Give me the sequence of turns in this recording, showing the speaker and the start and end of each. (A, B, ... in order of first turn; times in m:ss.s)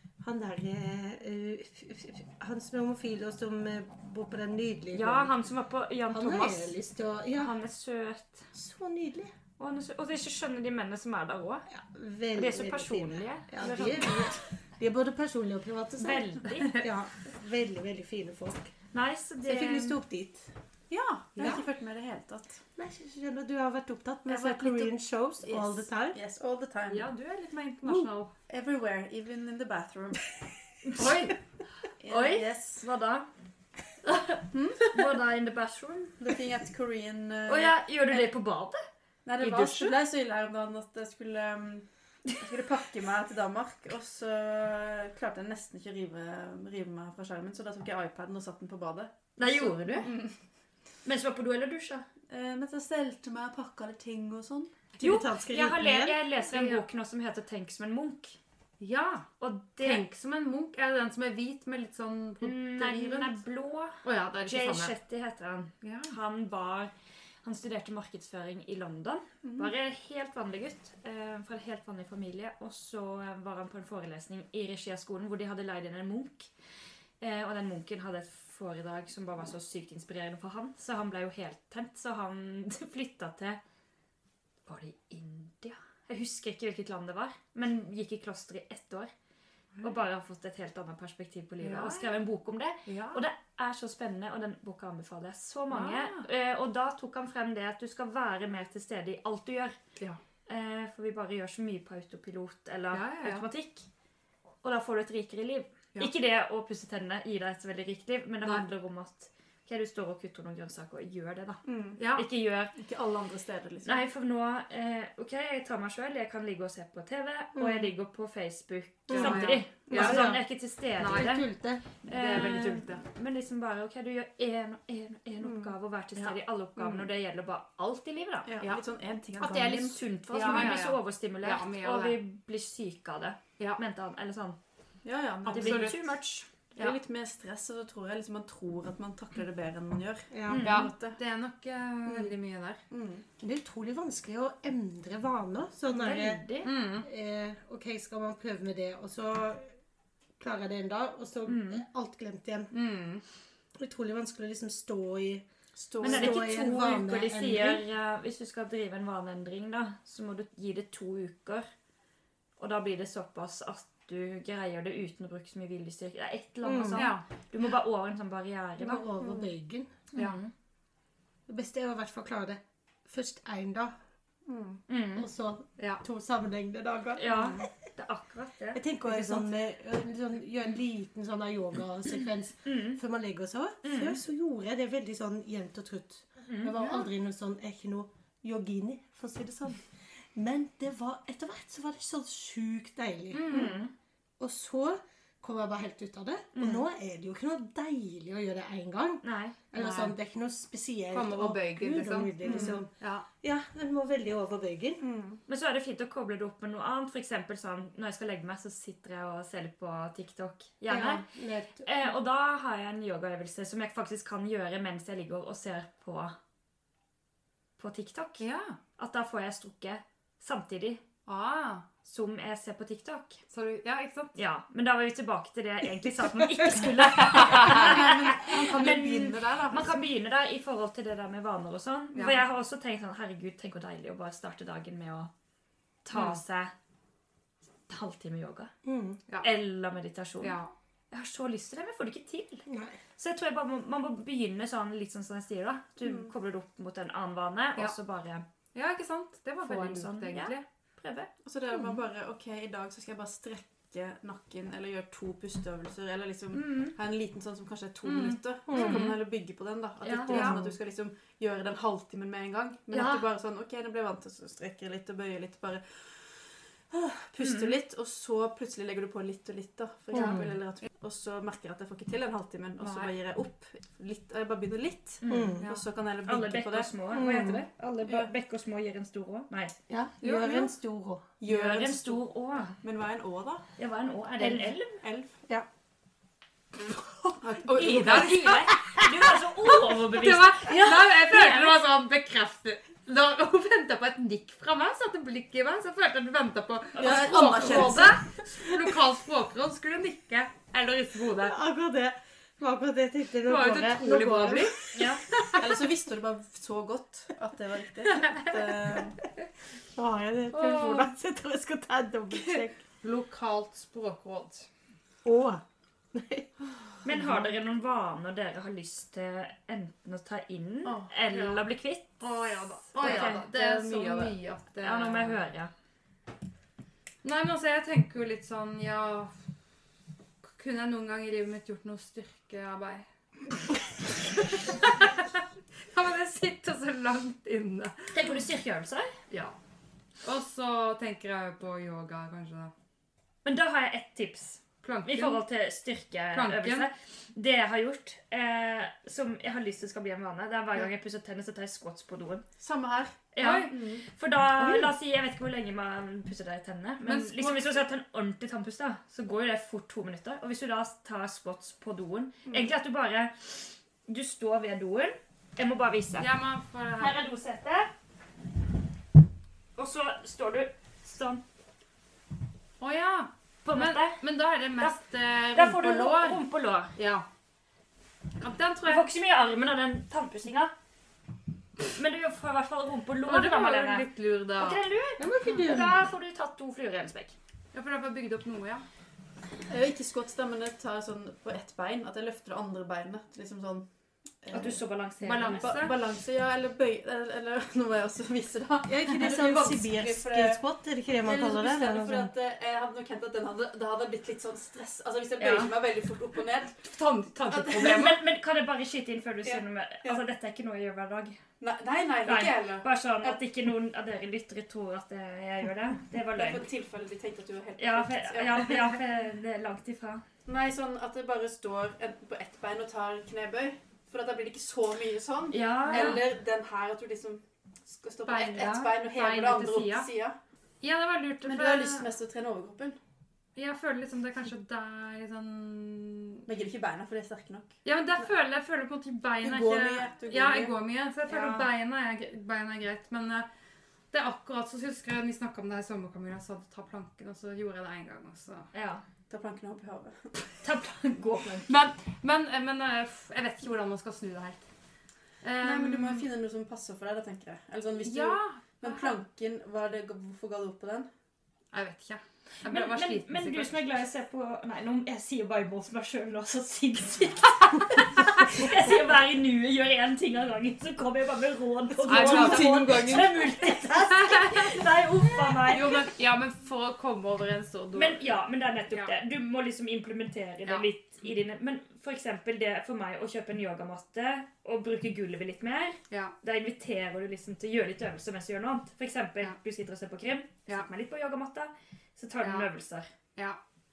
0:00.2-0:05.3 A
0:04.9-0:06.7 B
0:06.1-0:07.6 A
0:07.4-0:08.5 B
0:08.5-0:09.3 A
0:09.6-0:11.7 B
0:11.7-0:18.7 A
0:12.3-0:14.3 B
0:16.0-0:16.8 B
0:18.9-0:20.0 B
0:19.4-0:20.5 A
0:20.9-0:22.6 C
0:21.4-0:21.6 D
0:22.8-0:26.2 A
0:24.3-0:24.9 C
0:25.4-0:27.1 C
0:26.9-0:28.3 D
0:28.5-0:30.4 C
0:30.8-0:31.3 B
0:31.0-0:31.3 D
0:32.0-0:32.8 C
0:32.1-0:33.3 B
0:34.0-0:36.2 B
0:34.5-0:34.9 C
0:36.2-0:38.2 C
0:37.5-0:38.8 B
0:39.2-0:50.3 C
0:39.4-0:39.9 D
0:49.4-0:50.1 B
0:51.0-0:52.1 B
0:52.3-0:54.8 C
0:55.0-0:56.2 A
0:55.0-0:58.4 B
0:56.5-0:56.8 D
0:58.8-1:03.3 D
0:59.4-1:00.0 B
1:02.4-1:06.9 B
1:04.0-1:04.9 D
1:05.8-1:06.1 D
1:07.4-1:16.5 B
1:09.4-1:09.7 C
1:17.2-1:23.6 B
1:24.7-1:29.1 B
1:29.8-1:39.8 B
1:31.6-1:32.1 D
1:32.9-1:33.2 D
1:35.7-1:36.3 D
1:40.5-1:43.9 B
1:42.9-1:43.4 D
1:44.6-1:52.8 B
1:51.6-1:52.0 C
1:52.0-1:52.3 D
1:52.8-1:54.0 C
1:53.8-2:01.5 B
1:57.6-1:57.9 A
1:59.1-2:00.2 C
1:59.1-2:00.4 D
2:00.0-2:00.3 A
2:01.0-2:01.4 D
2:01.1-2:01.8 A
2:02.0-2:03.0 D
2:02.1-2:08.5 B
2:05.4-2:06.9 C
2:08.4-2:10.8 C
2:09.4-2:14.6 B
2:10.3-2:12.2 D
2:15.0-2:16.0 C
2:15.5-2:16.2 D
2:15.5-2:16.5 B
2:16.8-2:21.2 C
2:20.3-2:20.7 A
2:20.5-2:20.9 B
2:20.6-2:22.8 D
2:22.1-2:22.3 A
2:22.9-2:23.2 C
2:23.4-2:26.4 A
2:25.9-2:26.7 B
2:26.6-2:27.1 D
2:27.0-2:29.7 A
2:30.4-2:32.7 A
2:31.5-2:31.8 B
2:32.7-2:33.2 D
2:33.8-2:35.5 A
2:35.8-2:36.4 C
2:36.0-2:41.7 B
2:36.0-2:37.8 A
2:42.6-2:49.1 B
2:46.6-2:47.1 A
2:47.0-2:47.2 D
2:48.8-2:49.9 A
2:50.1-2:50.5 B
2:51.5-2:53.9 A
2:54.5-2:54.8 C
2:54.9-2:55.3 B
2:55.2-2:57.7 A
2:57.2-2:59.4 B
2:57.3-2:57.6 D
2:58.7-3:13.7 A
3:02.6-3:03.0 B
3:03.8-3:04.2 B
3:06.5-3:06.8 B
3:06.8-3:07.0 D
3:13.3-3:13.8 D
3:13.5-3:13.9 B
3:14.4-3:22.9 A
3:19.2-3:19.6 B
3:19.7-3:20.2 D
3:21.1-3:23.3 D
3:22.4-3:22.8 C
3:23.4-3:25.0 A
3:25.0-3:25.4 C
3:25.5-3:31.2 B
3:30.9-3:31.8 A
3:31.8-3:36.4 B
3:37.8-3:38.4 B
3:38.4-3:38.8 D
3:39.0-3:41.0 B
3:41.3-3:41.8 D
3:42.0-3:43.4 B
3:43.5-3:44.4 D
3:44.4-3:55.3 B
3:47.4-3:47.8 D
3:47.4-3:50.0 C
3:52.2-3:52.4 D
3:56.0-3:56.7 B
3:56.1-3:56.4 D
3:57.9-3:58.7 B
3:58.8-3:59.2 A
3:59.4-4:00.6 B
4:00.4-4:00.7 D
4:01.1-4:02.6 B
4:02.7-4:03.0 A
4:03.2-4:08.4 B
4:06.0-4:06.3 C
4:08.8-4:10.6 D
4:09.6-4:11.3 B
4:11.4-4:36.9 C
4:16.5-4:17.0 B
4:18.0-4:19.2 D
4:18.7-4:19.0 A
4:20.0-4:20.6 B
4:20.3-4:20.6 D
4:20.3-4:20.7 A
4:22.9-4:23.2 B
4:27.4-4:27.8 B
4:30.1-4:30.5 A
4:30.1-4:30.4 D
4:32.8-4:33.1 D
4:35.2-4:35.6 B
4:35.3-4:35.7 A
4:35.6-4:35.8 D
4:36.2-4:39.8 B
4:37.1-4:37.7 A
4:38.0-4:38.3 C
4:39.9-4:41.3 A
4:40.2-4:40.7 C
4:41.4-4:42.2 C
4:41.5-4:42.8 B
4:42.8-4:43.6 C
4:43.8-4:45.0 B
4:44.4-4:45.6 C
4:47.2-4:48.8 D
4:47.4-4:48.6 C
4:47.7-4:51.8 B
4:49.9-5:01.6 D
4:57.0-4:58.2 C
4:57.0-4:58.0 B
5:01.4-5:04.8 A
5:03.5-5:05.6 D
5:04.9-5:05.2 B
5:05.6-5:09.2 C
5:09.9-5:12.8 A
5:10.5-5:11.1 D
5:12.3-5:14.7 D
5:15.2-5:16.5 A
5:17.0-5:22.1 B
5:21.2-5:21.6 D
5:22.2-5:25.4 D
5:22.9-5:24.4 C
5:23.0-5:23.4 B
5:24.8-5:25.7 B
5:27.2-5:29.3 D
5:30.4-5:33.8 D
5:34.3-5:35.4 D
5:35.9-5:38.2 D
5:38.1-5:39.1 B
5:39.3-5:39.6 D
5:40.2-5:42.7 D
5:43.4-5:52.4 B
5:44.8-5:45.4 D
5:46.3-5:46.9 D
5:52.6-5:54.0 C
5:53.3-6:06.3 B
5:53.4-5:53.7 D
5:57.0-5:57.7 D
6:06.2-6:07.2 D
6:07.0-6:07.9 B
6:09.8-6:11.4 B
6:12.8-6:16.4 D
6:13.6-6:14.2 B
6:15.5-6:16.9 B
6:17.0-6:17.3 D
6:18.4-6:19.1 D
6:18.8-6:20.7 B
6:21.9-6:27.4 B
6:23.3-6:24.8 D
6:25.2-6:26.0 A
6:27.7-6:28.8 D
6:29.7-6:33.9 C
6:34.4-6:34.8 C
6:34.5-6:35.8 B
6:35.2-6:36.0 D
6:35.4-6:40.6 C
6:38.8-6:42.3 A
6:41.2-6:46.9 C
6:45.4-6:45.7 D
6:46.8-6:48.2 D
6:47.5-6:47.9 C
6:47.8-6:51.4 B
6:49.4-6:50.2 C
6:51.6-6:53.4 C
6:52.2-6:56.7 B
6:56.4-6:59.0 C
6:57.8-7:00.2 B
7:00.5-7:10.4 C
7:05.5-7:06.2 B
7:05.9-7:06.2 D
7:08.3-7:10.1 D
7:10.8-7:12.1 D
7:11.4-7:13.0 C
7:13.6-7:16.4 D
7:16.5-7:18.2 C
7:17.8-7:23.5 D
7:19.4-7:20.8 C
7:21.3-7:21.7 B
7:24.1-7:28.7 D
7:28.7-7:29.0 B
7:29.3-7:30.5 C
7:30.6-7:31.7 B
7:31.7-7:34.6 D
7:35.4-7:36.3 D
7:35.6-7:41.1 C
7:38.0-7:39.1 D
7:41.7-7:43.9 D
7:42.7-7:56.0 B
7:52.0-7:54.8 D
7:52.1-7:52.8 A
7:55.6-7:58.2 D
7:58.0-8:13.1 B
7:58.9-7:59.1 D
8:06.1-8:06.4 D
8:12.4-8:12.7 D